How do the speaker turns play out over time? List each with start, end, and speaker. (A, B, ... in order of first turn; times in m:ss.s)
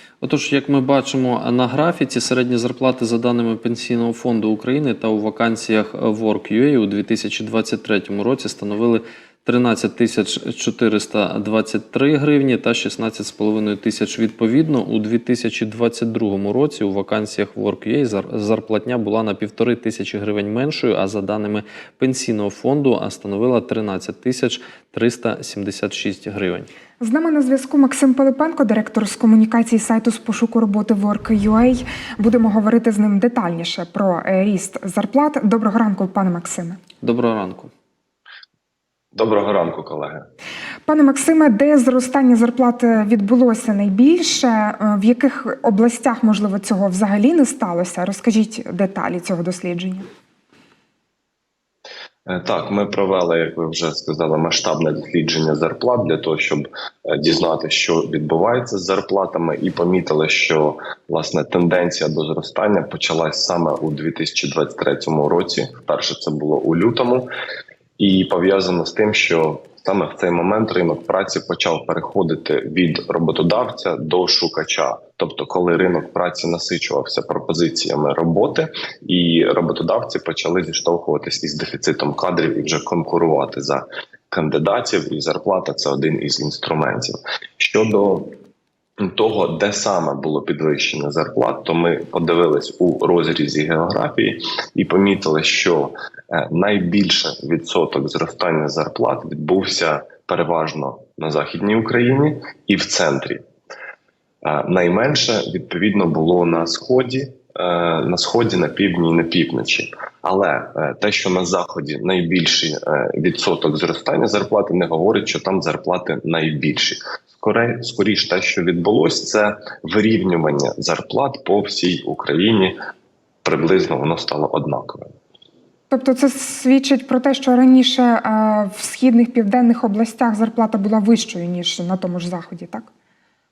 0:00.2-0:26.7 A
0:27.0-0:36.8 B
0:37.0-0:37.7 A
0:39.2-0:40.3 C
0:40.9-0:50.1 B
0:52.3-1:07.3 C
1:08.0-1:28.3 C
1:29.0-1:43.4 C
1:44.4-2:02.8 C
2:03.4-2:05.1 C
2:05.9-2:12.9 B